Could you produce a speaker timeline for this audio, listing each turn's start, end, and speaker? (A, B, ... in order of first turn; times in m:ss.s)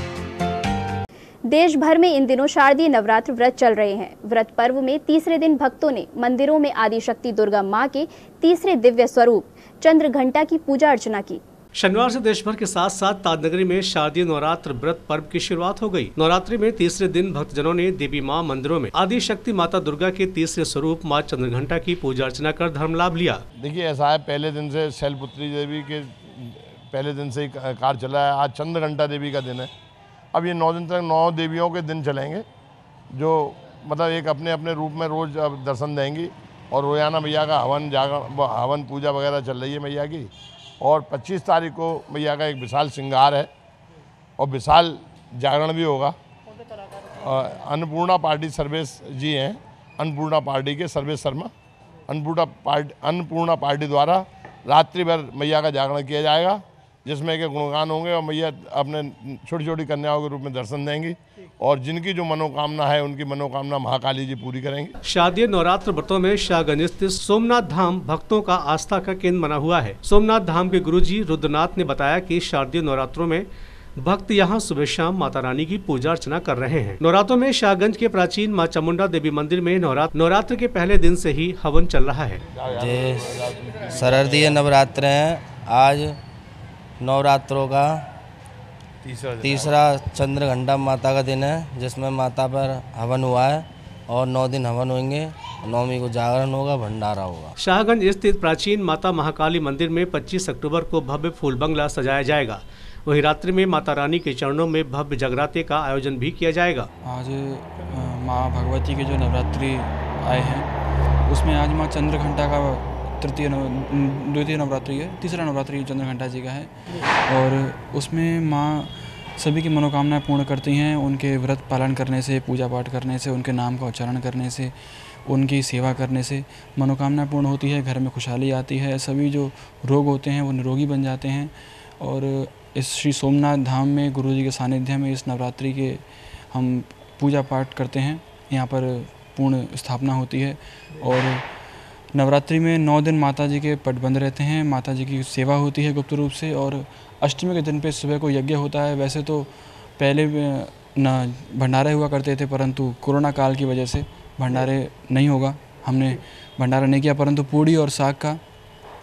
0:01.5-0:11.4 A
0:11.8-0:23.4 B
0:23.6-0:29.7 C
0:30.3-0:32.4 C
0:33.1-0:40.3 C
0:40.8-0:43.5 C
0:44.4-0:46.2 C
0:47.2-0:51.5 C
0:52.1-1:04.9 C
1:05.0-1:22.4 B
1:22.7-1:26.2 D
1:22.8-1:23.8 C
1:27.0-1:28.1 D
1:29.4-1:37.5 D
1:37.6-1:46.9 B
1:47.0-1:50.7 E
1:51.2-2:21.4 E
2:22.1-2:38.4 E